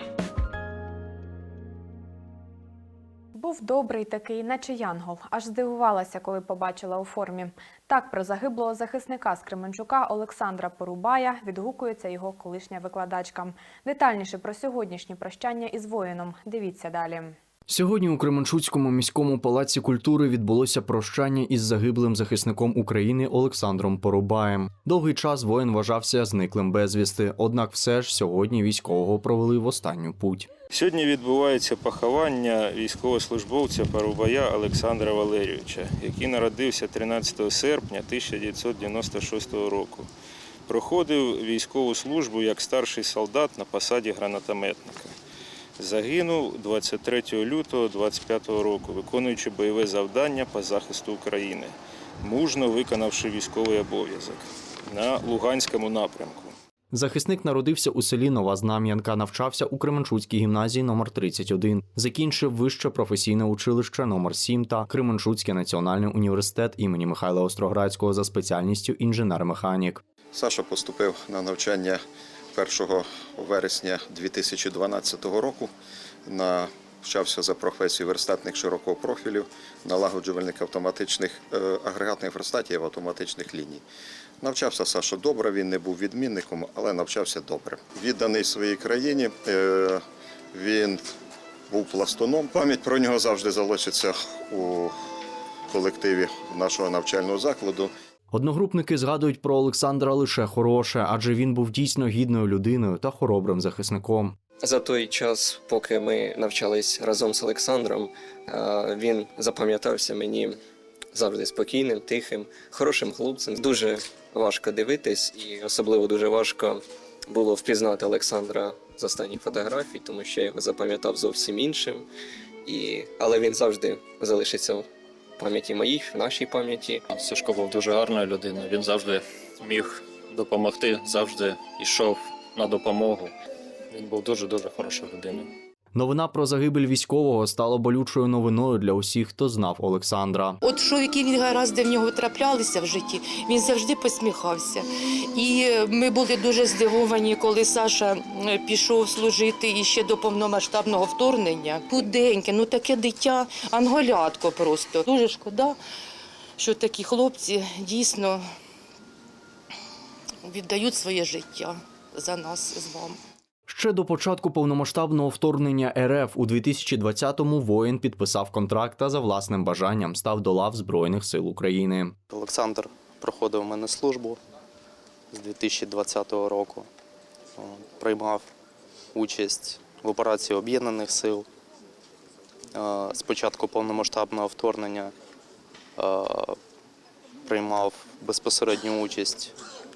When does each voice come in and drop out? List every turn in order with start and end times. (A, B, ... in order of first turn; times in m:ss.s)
0:03.3-0:17.4 A
0:17.7-0:30.5 B
0:30.7-0:40.1 C
0:40.7-0:45.1 C
0:45.8-0:56.5 C
0:56.9-1:10.0 B
1:10.3-1:12.0 D
1:12.5-1:15.7 D
1:16.3-1:23.8 D
1:24.4-1:30.0 D
1:30.5-1:31.0 D
1:31.7-1:34.9 D
1:35.7-1:37.9 D
1:38.3-1:44.4 B
1:44.6-1:50.6 E
1:51.1-2:02.0 E
2:02.6-2:04.8 E
2:05.4-2:07.0 E
2:07.1-2:13.3 F
2:13.9-2:15.5 F
2:15.9-2:20.6 B
2:20.6-2:35.8 G
2:36.6-2:38.4 G
2:40.4-2:43.2 G
2:43.7-2:52.2 B
2:52.3-2:54.4 H
2:55.3-2:56.9 H
2:57.6-2:58.5 H
2:59.1-3:01.4 H
3:02.7-3:05.1 H
3:06.0-3:06.6 H
3:07.4-3:09.5 H